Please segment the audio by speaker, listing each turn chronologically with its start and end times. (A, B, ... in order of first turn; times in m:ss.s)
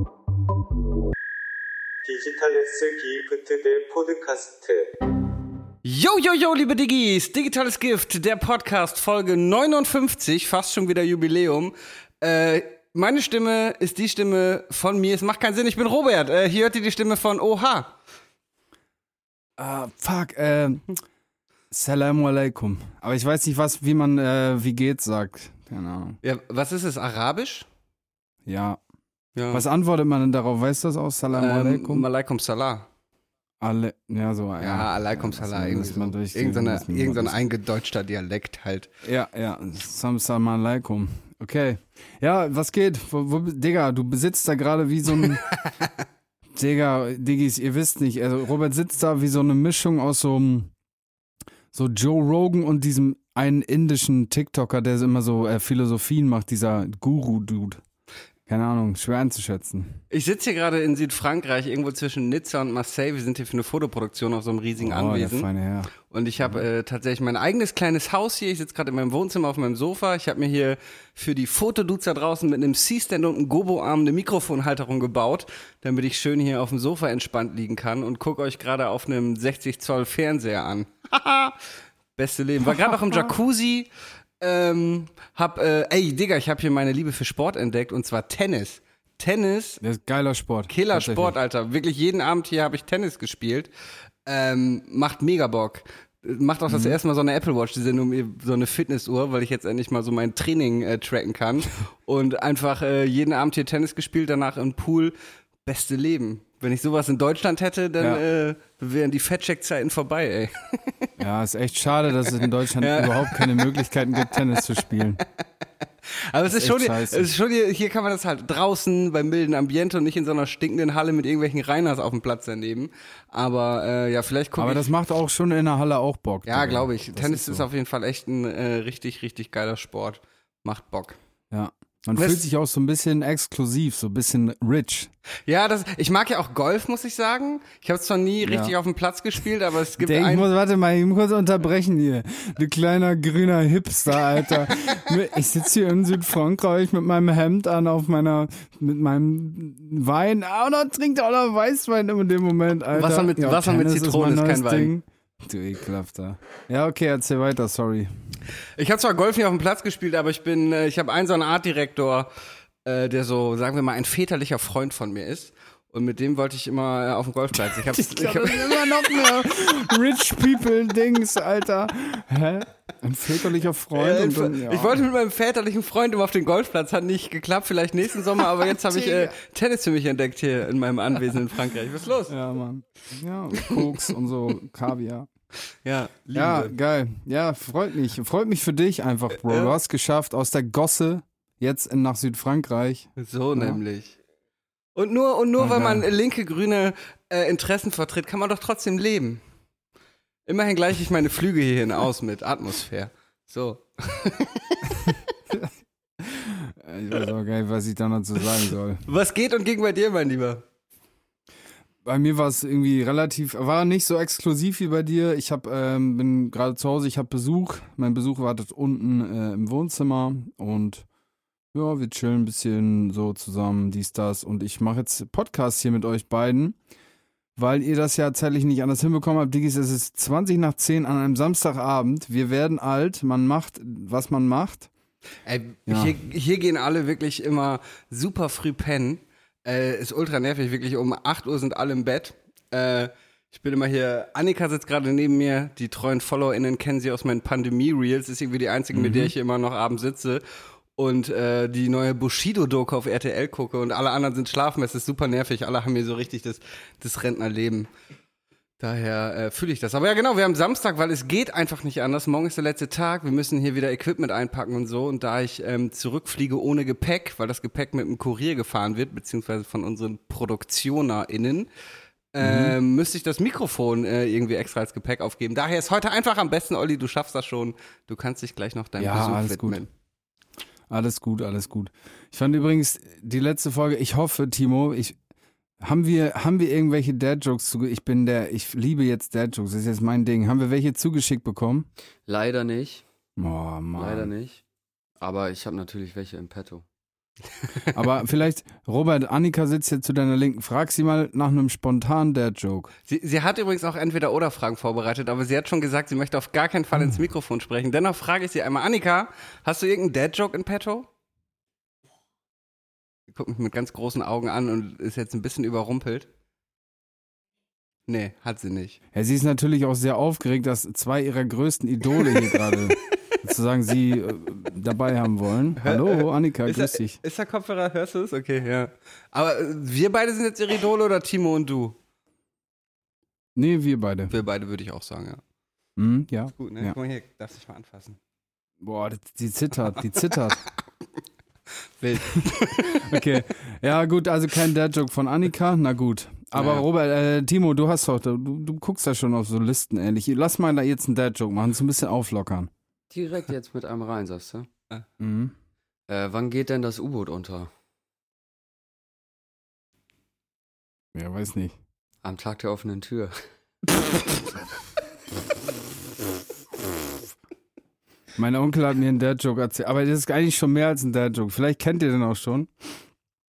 0:02.3-0:04.2 A
0:05.8-0:18.0 A
0:19.6-0:21.0 B
0:21.7-0:26.2 B
0:26.2-0:27.7 A
0:28.5-0:28.8 B
0:29.4-0:29.6 A
0:29.5-0:32.1 B
0:31.3-0:32.9 A
0:33.6-0:37.4 B
0:34.6-0:38.9 A
0:39.0-0:45.5 B
0:46.6-0:50.7 B
0:51.7-0:57.8 B
0:58.5-1:00.0 B
1:00.1-1:05.5 A
1:04.8-1:05.9 B
1:06.1-1:21.6 A
1:22.2-1:29.8 A
1:22.7-1:23.3 B
1:29.8-1:31.3 B
1:30.7-1:33.7 A
1:34.3-1:51.1 A
1:36.7-1:37.0 B
1:51.2-1:55.2 B
1:52.8-1:54.4 A
1:56.3-2:04.9 A
1:56.5-1:57.3 B
2:04.6-2:07.7 B
2:06.5-2:11.2 A
2:11.5-2:15.1 B
2:12.1-2:12.5 A
2:15.5-2:20.5 A
2:18.4-2:18.8 B
2:20.0-2:38.1 B
2:32.9-2:34.9 A
2:38.8-2:42.3 A
2:42.8-2:49.3 A
2:47.6-2:55.0 B
2:53.9-3:02.4 A
2:58.6-2:59.3 B
3:02.3-3:05.3 B
3:05.8-3:06.7 A
3:06.3-3:13.8 B
3:09.4-3:09.7 A
3:13.2-3:14.2 A
3:15.0-3:19.4 A
3:15.6-3:16.1 B
3:20.5-3:25.3 A
3:25.5-3:29.0 B
3:29.1-3:30.6 A
3:32.0-3:41.1 B
3:41.7-3:46.8 B
3:47.6-3:54.9 B
3:55.5-4:10.4 A
3:55.9-3:56.2 B
4:08.9-4:09.3 B
4:11.0-4:17.9 A
4:18.8-4:31.7 A
4:32.3-4:39.9 A
4:32.4-4:32.8 B
4:39.0-4:39.8 B
4:40.9-4:45.2 B
4:45.8-4:51.9 B
4:52.3-4:53.0 C
4:53.4-4:54.3 B
4:54.0-4:54.6 C
4:55.2-4:56.8 C
4:57.9-5:02.9 B
5:03.1-5:11.1 A
5:13.3-5:16.3 A
5:18.1-5:19.0 A
5:19.1-5:27.2 B
5:22.2-5:22.9 A
5:25.8-5:32.0 A
5:33.6-5:34.3 B
5:34.3-5:35.4 A
5:36.0-5:37.0 B
5:36.6-5:38.2 A
5:38.8-5:40.6 B
5:42.0-5:43.2 A
5:42.4-5:52.7 B
5:46.6-5:46.8 A
5:53.1-5:54.7 C
5:55.2-5:55.6 B
5:56.1-5:57.7 C
6:01.1-6:01.8 B
6:02.2-6:03.4 C
6:08.4-6:13.0 B